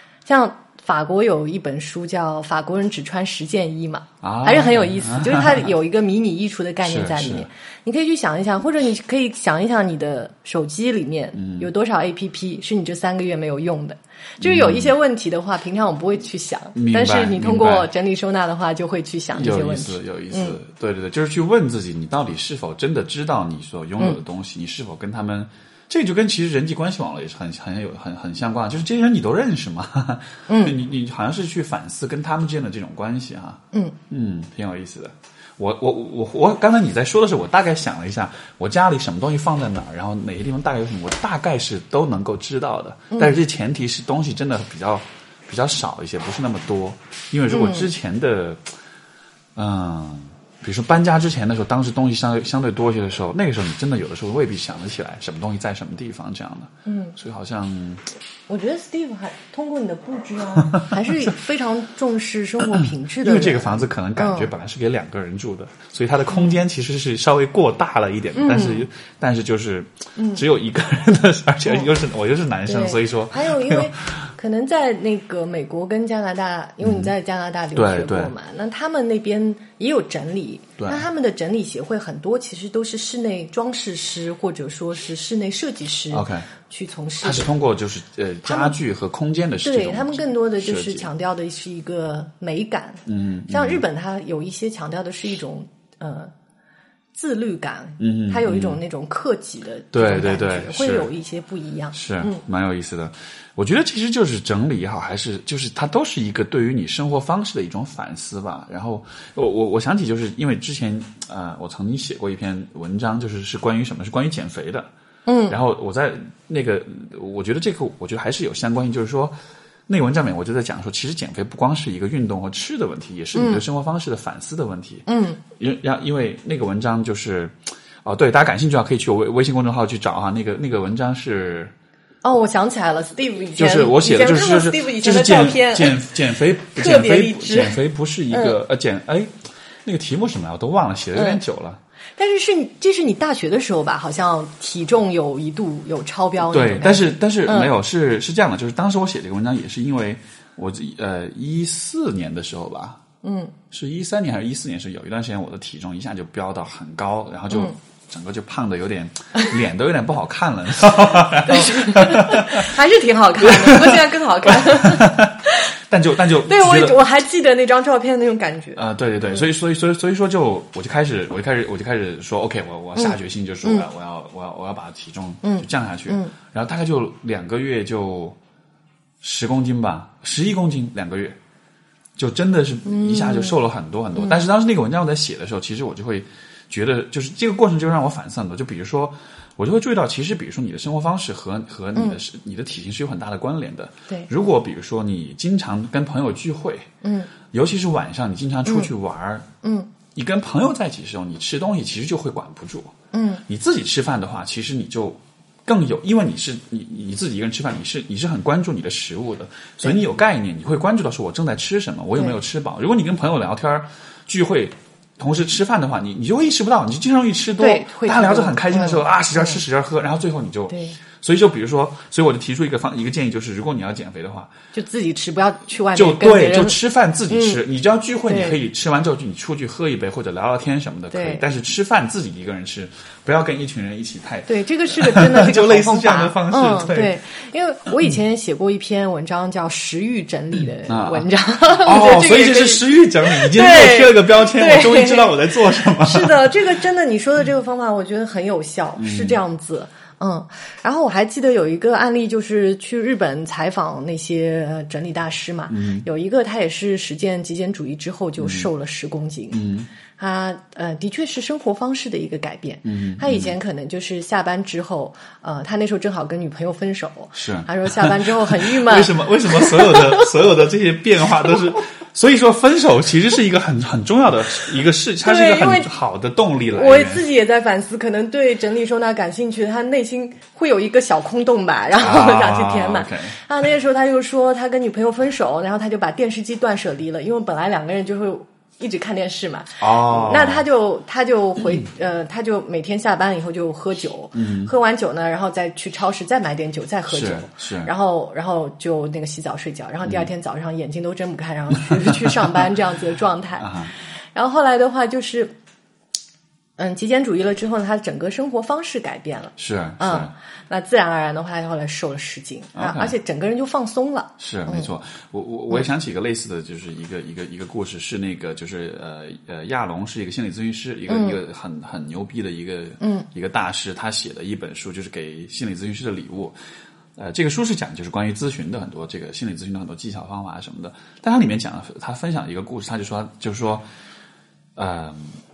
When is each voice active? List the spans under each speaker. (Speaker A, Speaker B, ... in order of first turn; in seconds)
Speaker A: 0.3-20.6, 30.5-30.8, 43.1-43.4, 47.5-47.9, 56.9-57.2, 58.5-64.5, 66.3-66.6, 68.3-68.9, 70.2-70.4, 72.7-87.5, 88.5-88.8, 89.6-96.3, 97.1-102.4, 115.3-115.6, 123.3-123.6, 125.1-125.4, 132.2-136.1, 136.8-137.8, 138.3-138.6, 141.2-141.4, 142.2-147.7, 153.2-153.6, 161.5-165.7, 166.4-169.5, 173.0-173.8, 175.4-176.3, 182.8-183.6, 184.2-184.4, 191.9-192.2, 197.0-197.3, 199.6-199.9, 203.1-203.4, 217.6-219.6, 220.7-221.0, 224.7-226.8, 227.3-227.6, 228.3-228.6, 231.1-231.4, 234.5-259.6, 260.2-270.3, 275.2-275.9, 276.7-305.5, 306.8-314.9, 321.1-321.4, 323.0-323.3
Speaker B: 4.2-5.7, 6.8-7.5, 11.4-11.7, 14.4-14.9, 16.8-17.9, 19.3-48.8, 49.6-58.1, 60.6-61.3, 62.7-74.3, 76.8-77.1, 77.8-78.3, 80.8-81.1, 86.1-86.5, 87.2-91.1, 93.1-93.8, 98.0-98.8, 99.9-101.1, 101.9-114.9, 115.5-119.3, 119.9-131.7, 133.6-141.8, 146.4-153.0, 153.7-162.7, 163.4-167.0, 168.8-178.4, 179.2-181.4, 182.2-196.9, 197.5-199.5, 200.1-202.9, 203.5-224.5, 225.9-237.1, 240.9-246.6, 249.0-249.4, 255.7-256.1, 258.4-258.7, 259.5-259.9, 262.9-263.5, 267.3-277.3, 282.0-283.4, 289.8-290.6, 294.4-294.7, 297.1-297.9, 302.0-302.6, 303.6-303.9, 309.6-310.3, 312.8-313.1, 314.4-326.6, 327.2-333.9, 334.8-335.4